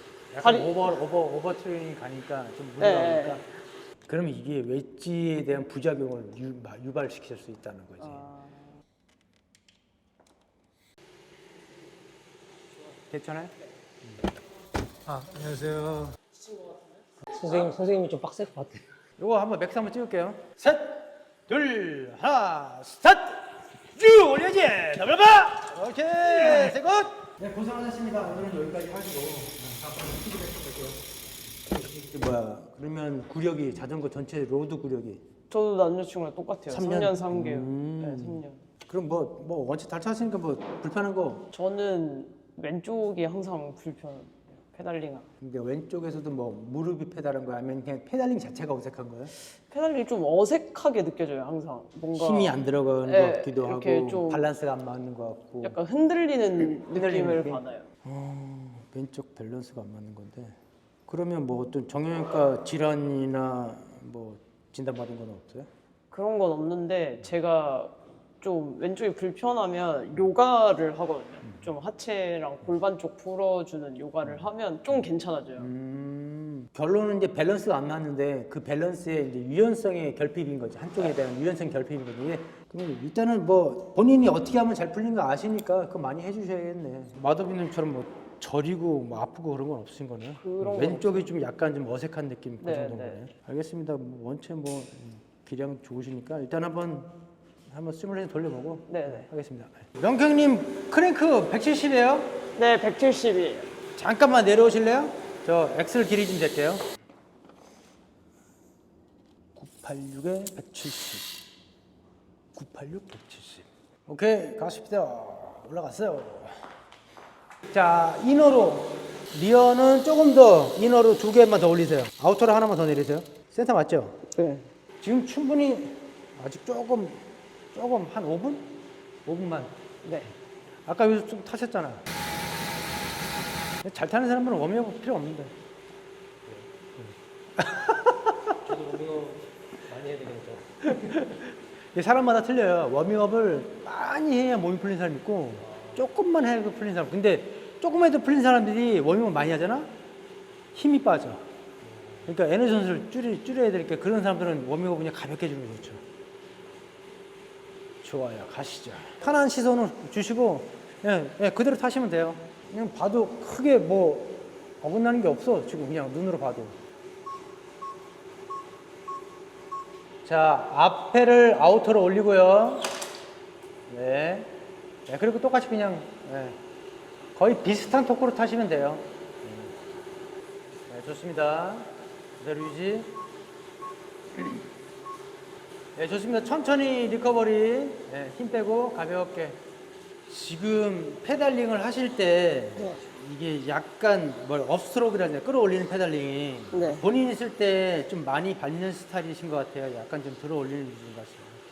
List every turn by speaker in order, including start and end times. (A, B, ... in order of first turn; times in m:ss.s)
0:00.3-0:03.4 A
0:00.4-0:00.8 B
0:02.8-0:03.4 B
0:04.0-0:08.2 A
0:08.0-0:08.7 B
0:13.1-0:13.5 A
0:15.1-0:16.2 C
0:17.3-0:18.9 C
0:19.2-0:31.0 A
0:31.6-0:35.2 A
0:35.5-0:38.6 B
0:36.7-0:41.5 A
0:41.5-0:45.3 B
0:45.4-0:49.3 A
0:49.5-0:54.4 B
0:52.1-0:55.8 A
0:55.6-0:57.9 B
0:56.6-1:00.6 A
1:01.1-1:05.7 A
1:06.1-1:15.7 B
1:14.2-1:15.0 A
1:15.6-1:37.2 A
1:30.4-1:31.3 B
1:32.6-1:33.2 B
1:37.7-1:42.4 A
1:38.9-1:39.3 B
1:42.5-1:43.7 B
1:44.0-1:46.8 A
1:49.5-1:51.3 A
1:52.5-1:56.7 A
1:57.7-2:04.2 A
2:04.3-2:04.7 B
2:05.0-2:09.8 A
2:10.0-2:10.3 B
2:10.8-2:12.0 A
2:13.8-2:15.5 A
2:17.0-2:18.6 A
2:18.7-2:20.6 C
2:20.8-2:29.9 A
2:30.7-2:31.4 A
2:32.2-2:36.0 A
2:38.0-2:46.8 A
2:50.2-2:52.9 A
2:53.9-2:54.5 A
2:55.1-2:56.6 A
2:57.4-2:59.7 A
3:00.9-3:03.1 A
3:04.3-3:04.6 A
3:06.0-3:09.6 A
3:10.3-3:21.6 A
3:16.7-3:17.0 B